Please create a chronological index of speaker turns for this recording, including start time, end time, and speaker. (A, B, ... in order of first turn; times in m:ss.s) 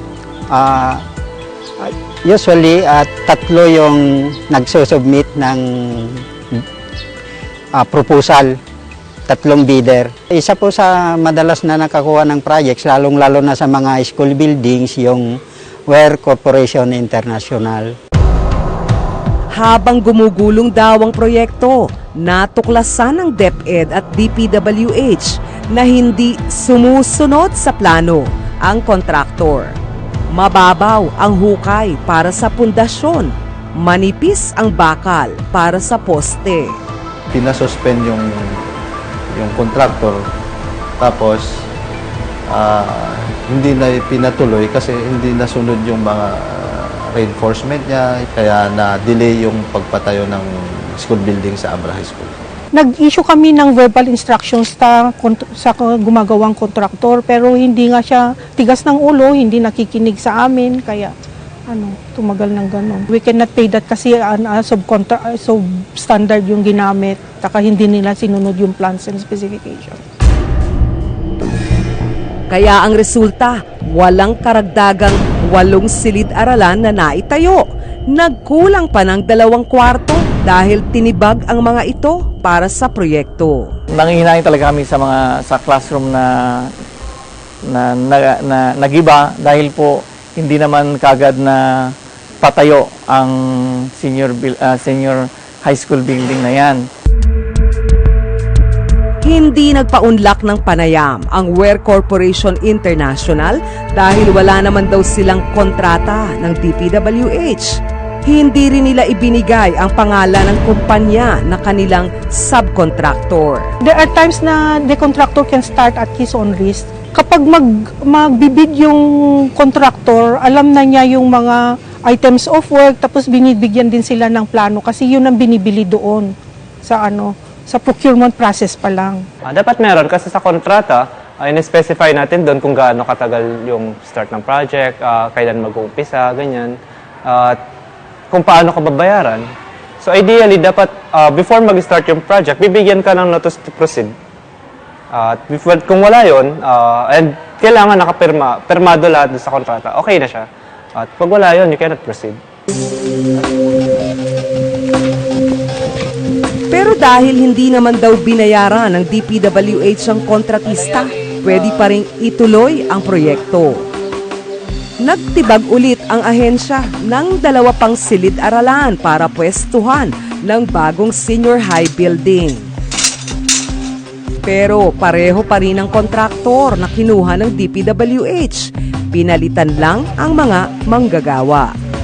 0:00.5-0:01.0 A
0:01.8-0:06.2 A
0:07.8-0:08.6 A
0:09.3-0:18.0 A
0:19.5-0:29.8 B
0:30.3-0:36.8 B
0:37.3-0:38.3 C
0:39.3-0:40.2 C
0:41.0-0:41.7 C
0:42.5-0:52.4 C
0:52.7-1:01.1 D
1:01.7-1:10.0 D
1:12.5-1:23.7 B
1:23.9-1:26.7 E
1:27.7-1:36.8 E
1:39.2-1:53.7 B
1:53.8-2:09.2 D
2:09.4-2:17.6 F
2:18.3-2:19.5 F
2:20.0-2:24.1 F
2:25.1-2:32.4 F
2:36.7-2:43.9 B
2:45.0-2:52.7 B
2:54.4-3:01.7 B